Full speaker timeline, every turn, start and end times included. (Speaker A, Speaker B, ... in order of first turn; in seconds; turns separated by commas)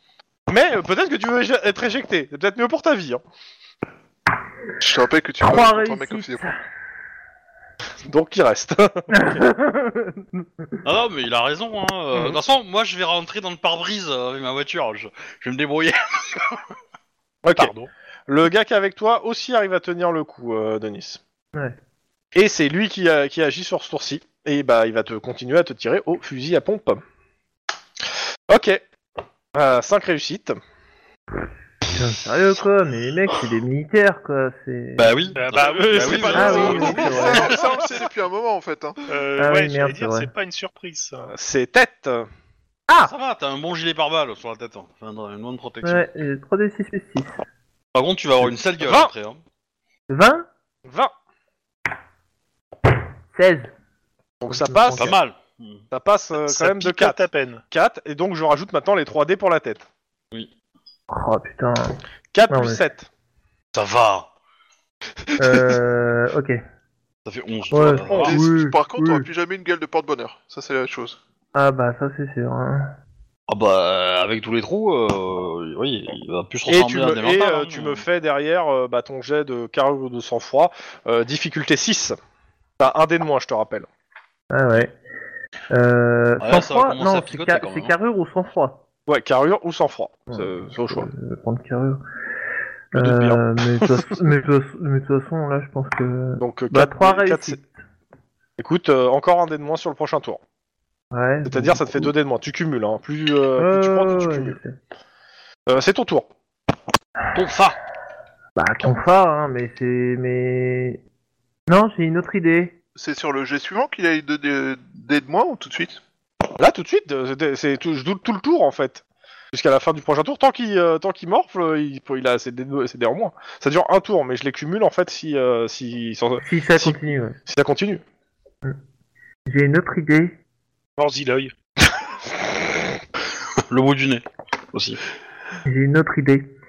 Speaker A: 0.5-3.2, Speaker B: 4.8-6.5, Speaker C: 5.4-6.6, Speaker A: 8.1-9.4, Speaker C: 9.1-10.8, Speaker D: 10.8-16.6, Speaker A: 17.4-17.7, Speaker E: 17.6-17.9, Speaker A: 18.3-21.2, Speaker A: 22.4-27.0, Speaker A: 28.5-28.8, Speaker A: 29.5-30.6, Speaker C: 31.9-35.2, Speaker D: 35.0-37.5, Speaker E: 35.4-37.1, Speaker A: 35.5-37.9, Speaker C: 36.3-37.5, Speaker B: 36.3-39.0, Speaker E: 39.1-41.3, Speaker C: 39.4-40.3, Speaker A: 41.3-42.3, Speaker D: 43.0-46.1, Speaker C: 45.8-47.4, Speaker D: 47.9-49.4, Speaker A: 48.8-49.1, Speaker C: 50.1-50.5, Speaker A: 50.9-51.1, Speaker C: 53.4-53.7, Speaker A: 54.4-55.2, Speaker C: 54.5-55.1, Speaker D: 54.9-55.8, Speaker A: 55.9-59.9, Speaker E: 56.5-57.6, Speaker C: 61.1-62.0, Speaker A: 62.3-63.1, Speaker C: 62.5-62.8, Speaker D: 63.7-64.3, Speaker C: 65.4-66.6, Speaker A: 65.5-65.8, Speaker D: 67.2-68.3, Speaker C: 67.7-69.3, Speaker A: 68.0-68.4, Speaker B: 68.2-71.2, Speaker C: 71.5-72.9, Speaker D: 73.5-78.0, Speaker A: 76.7-82.2, Speaker A: 82.8-83.9, Speaker C: 84.5-85.0, Speaker C: 85.7-88.8, Speaker D: 86.4-87.9, Speaker A: 89.1-91.1, Speaker C: 90.3-92.0, Speaker C: 92.9-97.7, Speaker A: 93.0-94.1, Speaker A: 96.4-97.6, Speaker A: 98.6-100.4, Speaker C: 101.1-102.1, Speaker A: 101.5-104.6, Speaker C: 103.6-104.8, Speaker A: 105.7-106.3, Speaker D: 107.3-107.8, Speaker C: 108.6-111.0, Speaker C: 111.7-112.8, Speaker B: 113.0-116.0, Speaker A: 116.6-128.0, Speaker C: 126.4-127.4, Speaker C: 129.5-130.4, Speaker E: 131.0-131.5, Speaker D: 133.7-135.0, Speaker C: 135.7-136.5